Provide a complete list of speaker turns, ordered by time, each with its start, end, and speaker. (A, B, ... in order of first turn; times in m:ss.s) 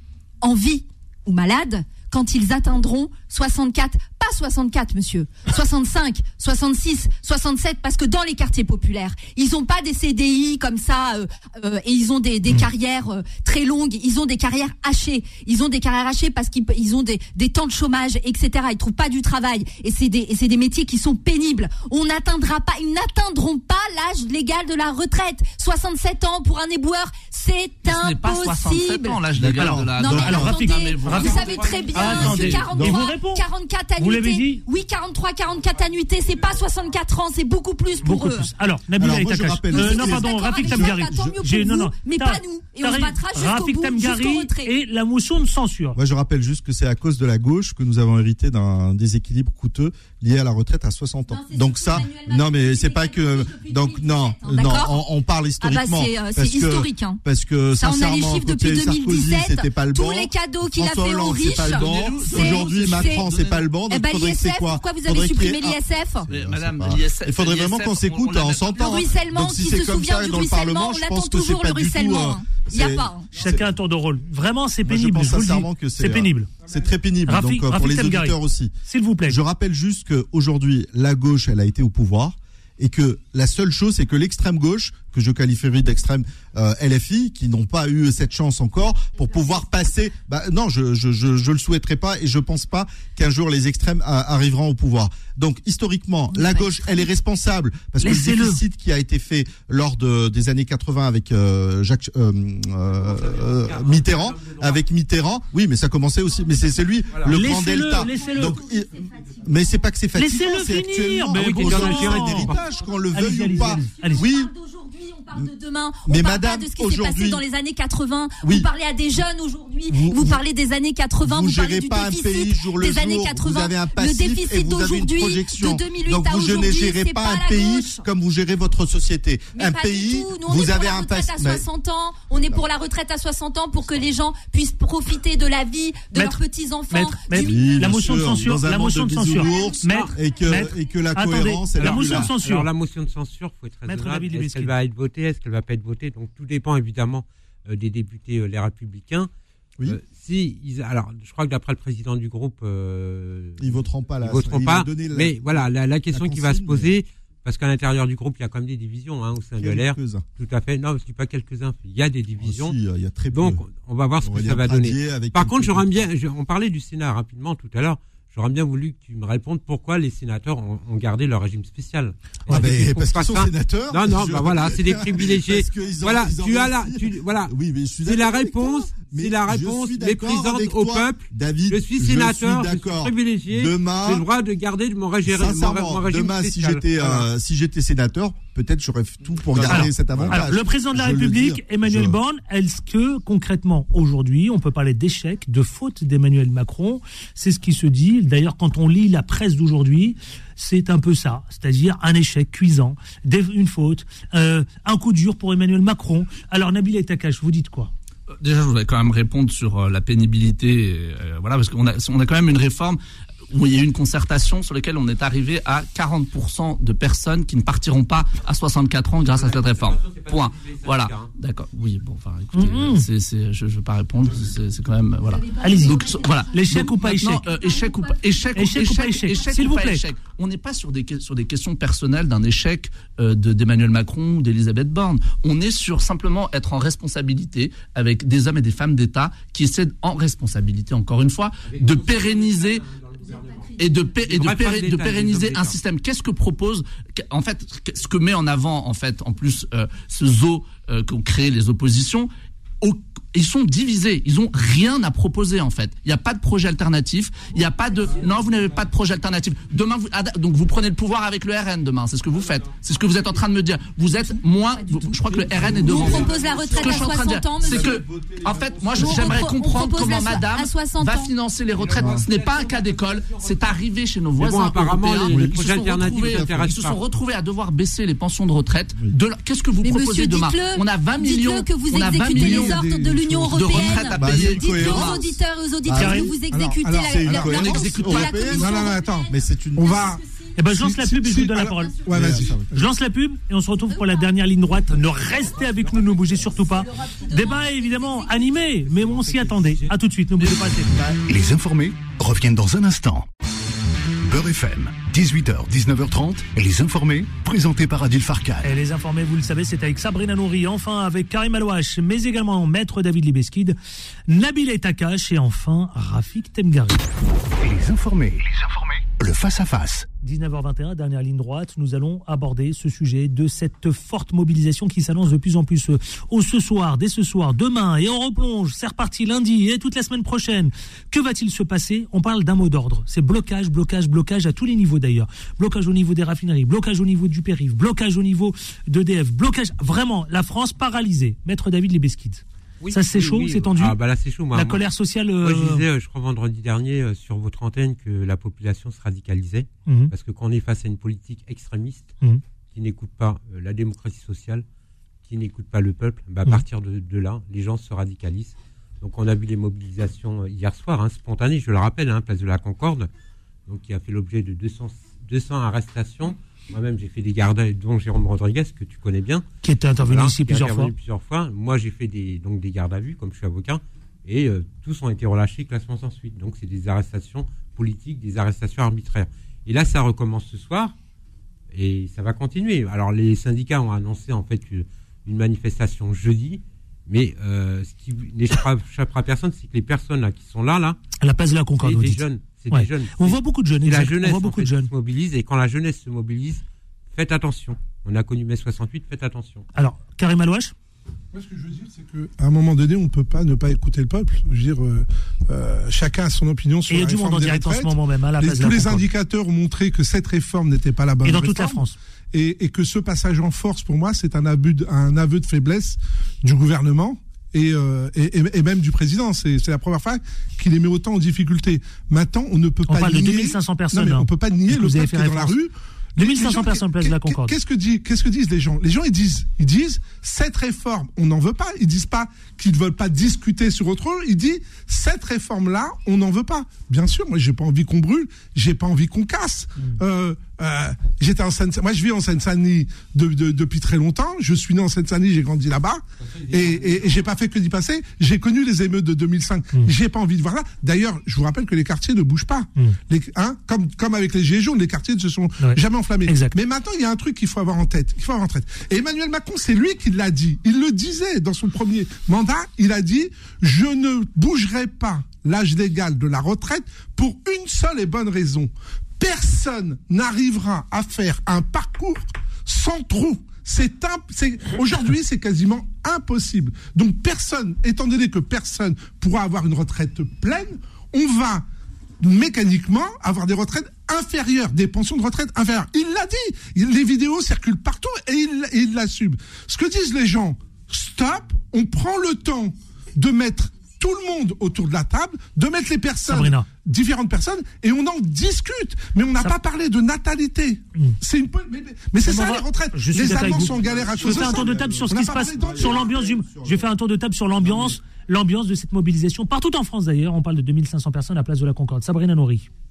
0:00.4-0:29.3 A
0:27.8-0:31.6 B
0:29.4-0:30.6 C
0:29.6-0:33.4 D
0:29.9-0:38.5 A
0:31.6-0:32.0 E
0:32.0-0:33.0 C
0:32.2-0:32.7 B
0:34.0-0:34.6 D
0:38.0-0:46.0 D
0:39.0-0:41.3 C
0:39.7-0:44.8 A
0:46.0-1:13.7 C
0:51.3-0:55.1 A
0:55.6-0:57.2 A
0:57.8-1:06.4 A
1:01.5-1:03.7 B
1:06.3-1:09.0 B
1:08.8-1:13.3 A
1:13.4-1:16.5 D
1:14.8-1:18.7 C
1:16.7-1:17.0 E
1:17.3-1:19.4 D
1:19.3-1:54.5 C
1:29.1-1:30.0 A
1:36.3-1:37.1 A
1:38.0-1:38.6 D
1:42.9-1:44.8 F
1:46.3-1:46.9 A
1:47.1-1:47.6 F
1:47.3-1:48.6 D
1:47.6-1:49.9 A
1:50.2-1:54.3 D
1:51.3-1:52.7 F
1:52.6-2:08.1 A
1:56.1-1:57.4 C
1:58.4-1:58.7 C
1:59.9-2:00.4 C
2:01.2-2:11.6 C
2:09.5-2:18.3 A
2:16.1-2:22.7 D
2:17.3-2:22.3 C
2:19.3-2:21.0 A
2:19.8-2:20.1 F
2:21.8-2:29.3 F
2:23.9-2:24.8 D
2:29.8-2:42.8 F
2:33.6-2:37.0 C
2:39.6-2:40.3 C
2:42.4-2:43.6 C
2:43.3-2:57.5 F
2:44.2-2:46.1 C
2:52.5-3:04.3 C
2:58.1-3:07.2 F
3:05.2-3:12.2 C
3:09.5-3:10.6 F
3:09.6-3:27.9 D
3:28.4-3:33.0 B
3:33.5-4:02.8 B
3:39.2-3:41.3 F
3:42.5-3:43.0 D
3:45.2-3:46.8 A
3:45.6-3:47.4 D
3:47.4-3:49.8 A
3:48.6-3:50.0 D
4:01.6-4:05.8 F
4:03.2-4:04.4 A
4:03.8-4:12.3 B
4:12.8-4:42.8 B
4:17.5-4:18.9 F
4:22.3-4:23.4 F
4:24.0-4:28.0 A
4:25.3-4:30.5 C
4:28.9-4:31.3 A
4:31.8-4:37.0 F
4:31.8-4:32.3 C
4:35.3-4:36.8 C
4:39.8-4:50.7 A
4:41.9-4:44.0 E
4:43.5-4:45.2 B
4:43.6-4:45.3 C
4:45.9-4:46.4 C
4:46.0-4:46.3 D
4:46.0-4:52.6 E
4:47.1-4:50.0 C
4:47.6-4:48.5 B
4:50.6-4:52.0 D
4:51.8-4:52.3 A
4:52.1-4:52.7 C
4:52.7-5:01.0 D
4:53.9-4:58.9 A
4:58.9-4:59.6 C
4:59.6-4:59.9 F
5:00.4-5:01.2 C
5:01.3-5:03.3 G
5:04.3-5:08.7 G
5:08.6-5:13.8 D
5:14.3-5:17.0 D
5:17.6-5:20.1 G
5:20.2-5:44.0 D
5:42.8-5:44.8 F
5:44.5-5:45.8 D
5:45.4-5:52.1 F
5:49.9-5:50.1 D
5:52.7-5:54.6 F
5:55.2-6:03.1 F
6:03.7-6:09.4 F
6:09.6-6:10.9 D
6:10.0-6:20.9 F
6:21.7-6:31.0 F
6:31.2-6:34.9 D
6:31.8-6:39.7 F
6:39.8-6:40.7 D
6:41.3-8:01.6 E
6:46.9-6:49.1 D
6:51.2-6:52.0 D
7:02.9-7:05.6 D
7:06.2-7:07.6 D
7:26.2-7:27.3 F
7:35.6-7:36.6 D
8:02.2-8:26.1 E
8:16.2-8:16.7 D
8:22.2-8:32.7 D
8:23.2-8:26.9 C
8:27.5-8:28.0 C